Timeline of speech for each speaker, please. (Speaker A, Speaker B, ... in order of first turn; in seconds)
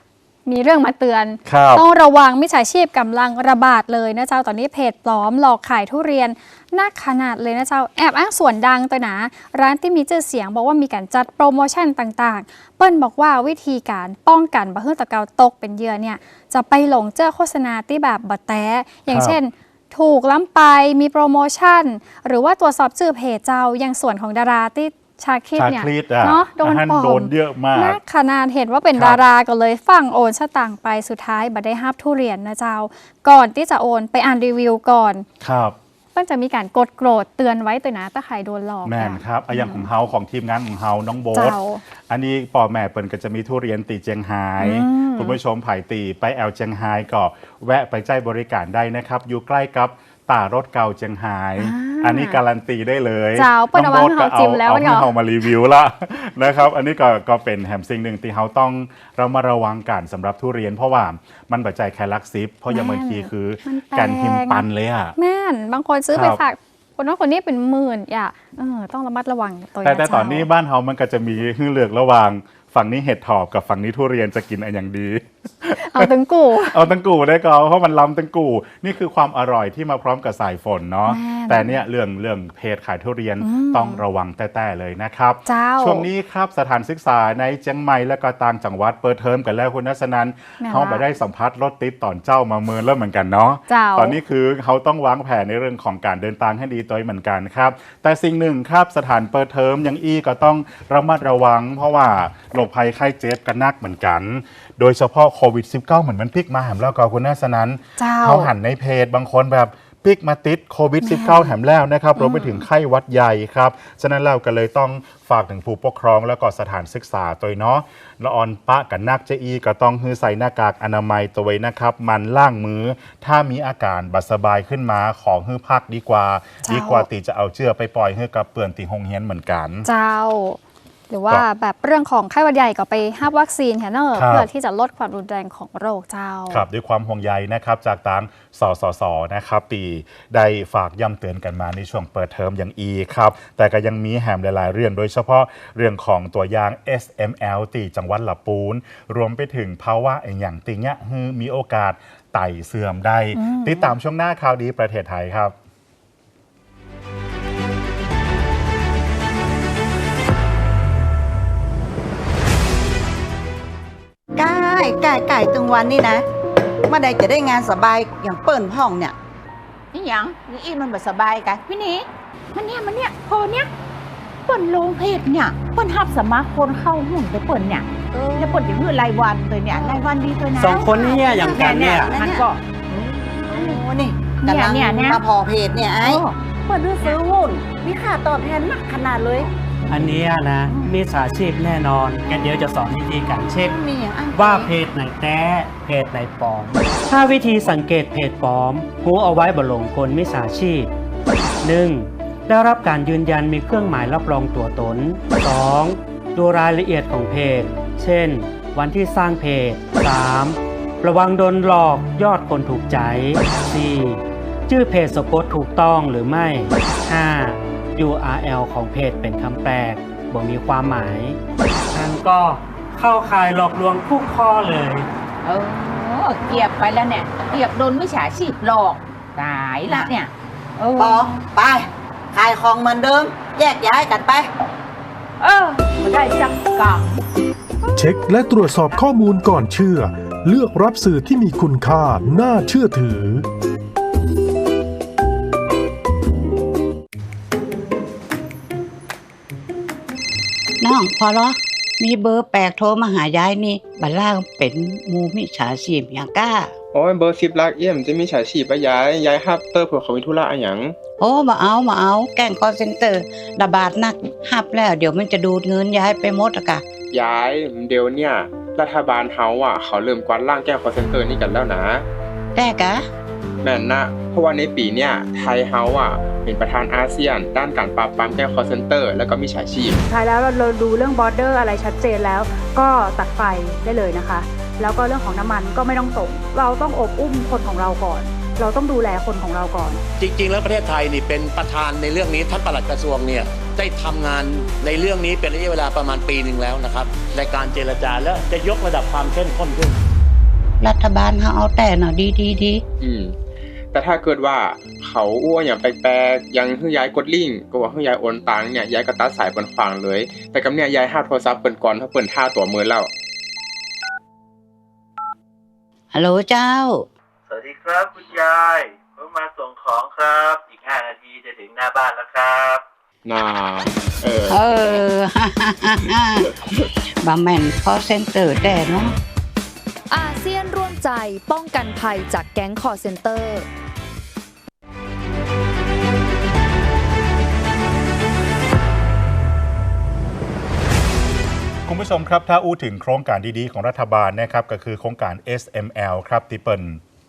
Speaker A: 0.5-35.3, 36.1-39.9, 41.3-41.8, 44.6-45.4, 51.6-52.4, 53.4-55.1, 62.7-70.5, 75.9-76.9, 81.1-81.8, 83.4-84.0, 85.5-86.1, 90.6-91.0, 93.7-94.2, 108.0-108.5, 111.0-111.5, 112.2-112.7, 126.6-127.1, 129.9-130.6, 131.1-136.7, 153.4-153.9
Speaker B: 1.5-1.9, 19.1-19.4, 25.6-28.0, 28.9-29.2, 35.4-35.8, 38.9-41.6, 42.1-65.2, 66.1-66.4, 69.8-76.1, 76.7-129.9, 134.2-134.5, 136.5-155.6, 341.9-347.0
Speaker C: 164.4-166.2, 166.9-169.2, 178.1-178.7, 179.7-180.0, 181.1-182.5, 183.4-186.2, 193.6-194.5, 231.0-234.5
Speaker D: 169.9-173.7, 174.5-183.8, 184.4-185.2, 186.0-189.5, 225.4-231.2, 235.4-237.2, 238.7-239.0
Speaker E: 180.6-182.2, 189.9-193.8, 194.3-200.9, 201.6-221.4, 221.9-225.1
Speaker F: 193.7-194.7, 250.8-256.7, 261.2-266.8, 272.6-273.0, 300.8-302.8, 316.1-317.1, 324.5-326.5, 327.2-329.1
Speaker G: 238.0-243.5
Speaker H: 256.9-260.9, 267.1-272.1, 273.6-280.0, 303.0-303.3, 303.9-313.1, 323.3-325.0
Speaker I: 280.1-290.0
Speaker J: 290.2-300.0
Speaker K: 317.5-322.8
Speaker L: 330.1-333.6